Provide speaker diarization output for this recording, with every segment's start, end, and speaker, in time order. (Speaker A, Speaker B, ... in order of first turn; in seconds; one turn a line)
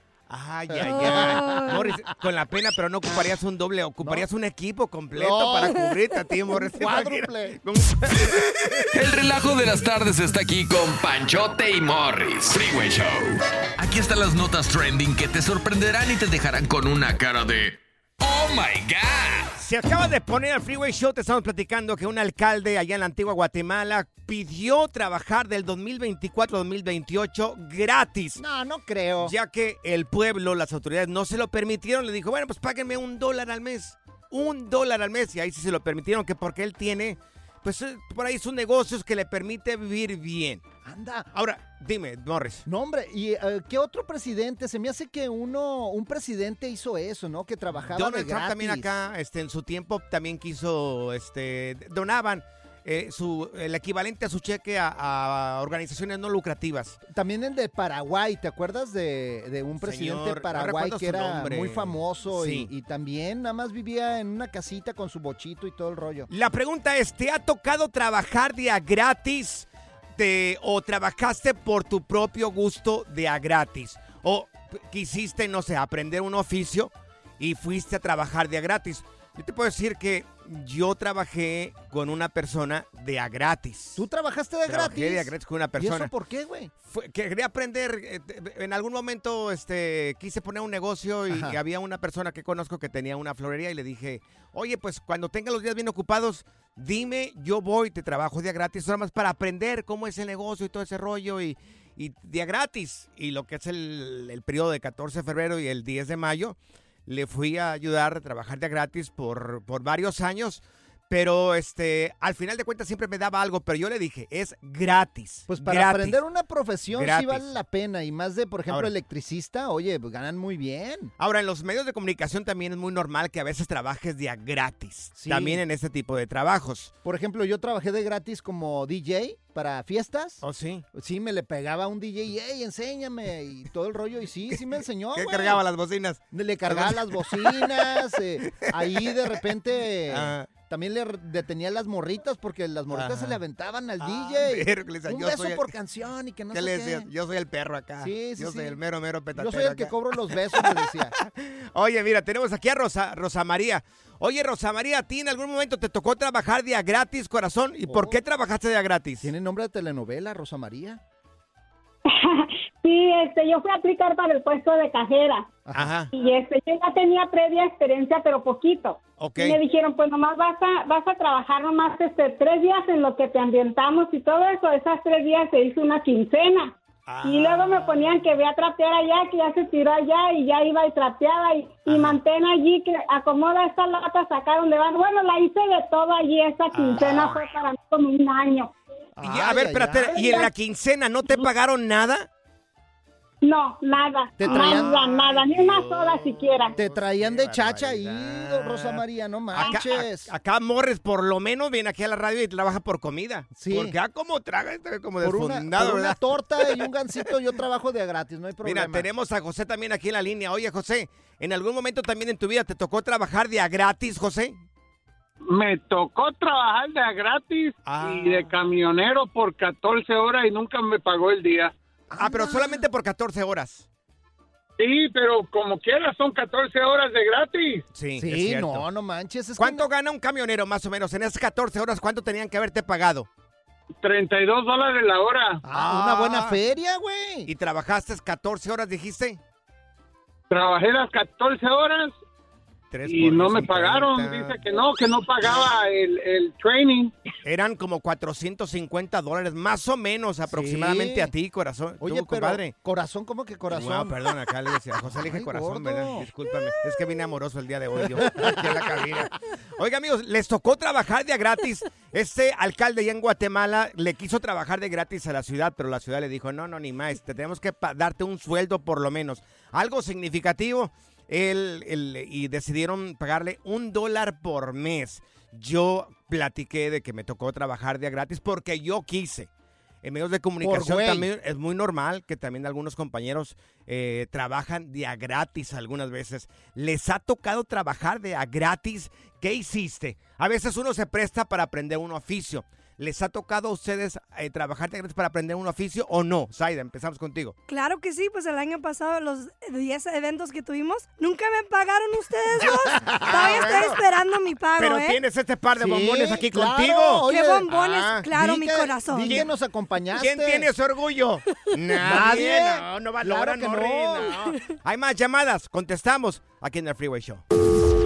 Speaker A: 0.3-8.5
Speaker B: 0.7-2.0
Speaker C: 0.9-1.8
Speaker B: 5.1-5.8
Speaker B: 6.5-7.6
Speaker D: 8.9-19.5
Speaker A: 19.6-28.4
Speaker B: 28.4-29.3
Speaker A: 29.2-40.6
Speaker B: 40.8-41.3
Speaker A: 41.3-42.6
Speaker B: 42.6-48.9
Speaker A: 47.7-57.0
Speaker B: 57.1-66.3
Speaker A: 59.8-62.7
Speaker A: 66.3-84.0
Speaker B: 84.0-86.7
Speaker A: 84.7-86.1
Speaker A: 86.8-116.2
Speaker B: 91.3-91.6
Speaker B: 115.5-121.1
Speaker A: 116.9-117.4
Speaker A: 121.2-126.9
Speaker B: 125.2-125.6
Speaker B: 127.0-130.4
Speaker A: 130.4-130.8
Speaker B: 130.9-135.6
Speaker A: 135.2-137.7
Speaker B: 136.3-147.1
Speaker A: 138.6-139.3
Speaker A: 140.1-140.5
Speaker A: 142.9-143.4
Speaker A: 144.0-145.6
Speaker A: 146.5-149.9
Speaker B: 148.0-148.8
Speaker B: 149.3-151.2
Speaker A: 151.2-159.3
Speaker B: 157.8-158.2
Speaker B: 159.2-161.0
Speaker E: 162.1-165.5
Speaker B: 165.6-165.9
Speaker A: 165.7-166.1
Speaker E: 166.1-176.7
Speaker A: 169.2-169.6
Speaker A: 177.1-178.2
Speaker E: 177.2-188.7
Speaker A: 181.9-182.2
Speaker A: 186.7-187.4
Speaker B: 189.2-190.4
Speaker A: 189.2-192.3
Speaker E: 190.1-190.5
Speaker E: 193.4-196.8
Speaker B: 194.4-195.1
Speaker A: 194.4-199.0
Speaker B: 196.8-200.3
Speaker A: 199.5-206.2
Speaker B: 203.5-203.9
Speaker B: 205.2-209.1
Speaker A: 208.6-214.6
Speaker F: 215.5-221.7
Speaker A: 217.8-218.5
Speaker B: 222.1-222.8
Speaker A: 222.2-223.8
Speaker F: 224.8-227.8
Speaker A: 227.9-228.8
Speaker B: 228.2-229.8
Speaker A: 229.6-233.3
Speaker F: 234.0-235.6
Speaker B: 235.6-237.5
Speaker A: 235.7-236.6
Speaker A: 237.5-239.4
Speaker F: 240.5-242.2
Speaker A: 242.9-244.6
Speaker F: 243.1-247.1
Speaker A: 247.4-252.7
Speaker B: 250.5-251.3
Speaker B: 252.0-254.2
Speaker A: 253.7-279.5
Speaker B: 255.1-256.3
Speaker B: 258.0-259.2
Speaker A: 280.0-297.5
Speaker B: 280.6-281.3
Speaker C: 297.7-305.2
Speaker B: 302.6-303.9
Speaker A: 303.2-304.0
Speaker A: 304.8-308.3
Speaker B: 305.8-307.7
Speaker C: 307.3-309.4
Speaker B: 308.3-310.7
Speaker A: 310.1-317.4
Speaker B: 312.0-314.4